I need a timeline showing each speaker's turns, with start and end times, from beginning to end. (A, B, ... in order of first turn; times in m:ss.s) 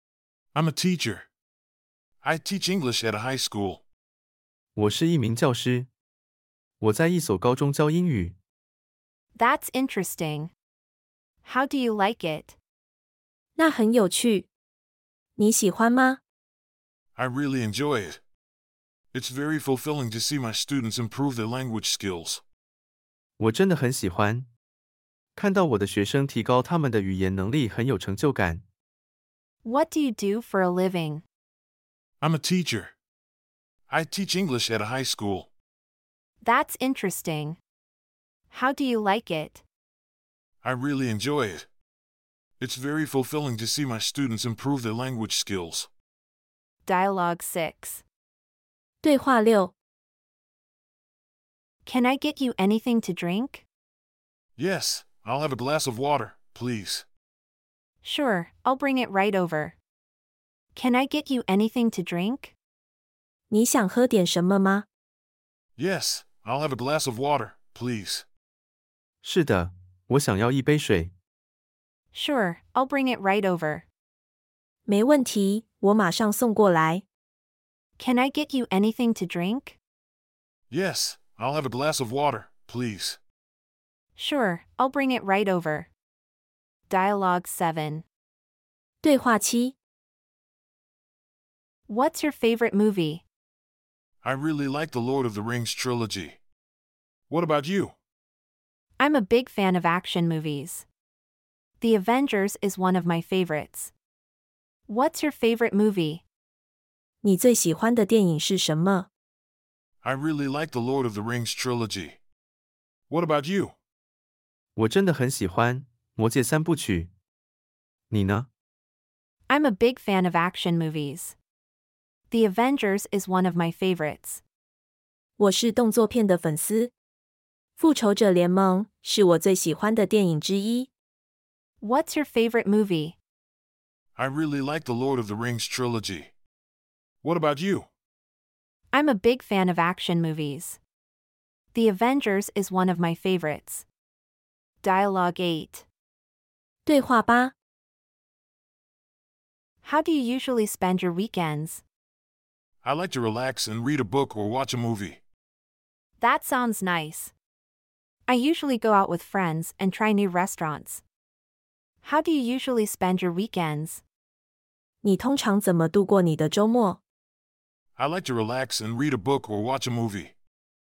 0:00.5-0:01.3 A
0:02.2-0:03.8 A
0:04.8-0:05.9 B
0:06.8-0:08.4 B
0:09.3-0:10.5 C
0:11.4-0:12.6 C
0:13.6-0:14.5 D
0:15.4-0:16.2 D
0:17.2-0:18.2 A
0:19.1-0:22.4 A
0:23.4-0:24.5 B
0:25.4-0:28.6 B
0:29.6-0:31.2 C
0:32.2-0:32.9 A
0:33.9-0:35.5 A
0:36.4-0:37.6 C
0:38.5-0:39.6 C
0:40.6-0:41.7 A
0:42.6-0:45.9 A
0:46.8-0:48.0 C
0:49.0-0:49.7 D
0:51.8-0:53.6 C
0:54.6-0:57.0 A
0:58.0-0:59.8 C
1:00.7-1:02.5 C
1:03.5-1:04.8 D
1:05.8-1:08.2 A
1:09.2-1:11.1 B
1:12.1-1:13.8 C
1:14.8-1:17.0 D
1:18.0-1:19.8 C
1:20.7-1:23.2 A
1:24.2-1:25.9 C
1:26.9-1:28.0 C
1:29.0-1:29.8 D
1:31.9-1:33.2 C
1:34.2-1:36.4 A
1:37.3-1:37.9 A
1:39.0-1:40.8 C
1:41.8-1:43.9 C
1:44.9-1:46.2 C
1:47.2-1:49.1 D
1:50.0-1:52.2 A
1:53.1-1:53.7 A
1:54.8-1:57.1 B
1:58.1-1:58.5 B
1:59.5-2:01.4 C
2:02.3-2:04.4 C
2:05.4-2:06.9 D
2:07.8-2:10.9 D
2:11.8-2:13.2 C
2:14.2-2:16.3 A
2:17.2-2:17.9 A
2:18.9-2:20.8 C
2:21.7-2:23.8 C
2:24.8-2:25.8 C
2:26.8-2:27.5 D
2:29.8-2:31.8 C
2:32.8-2:35.2 A
2:36.2-2:37.3 C
2:38.3-2:41.0 C
2:42.0-2:44.0 C
2:45.0-2:47.0 D
2:48.0-2:50.3 A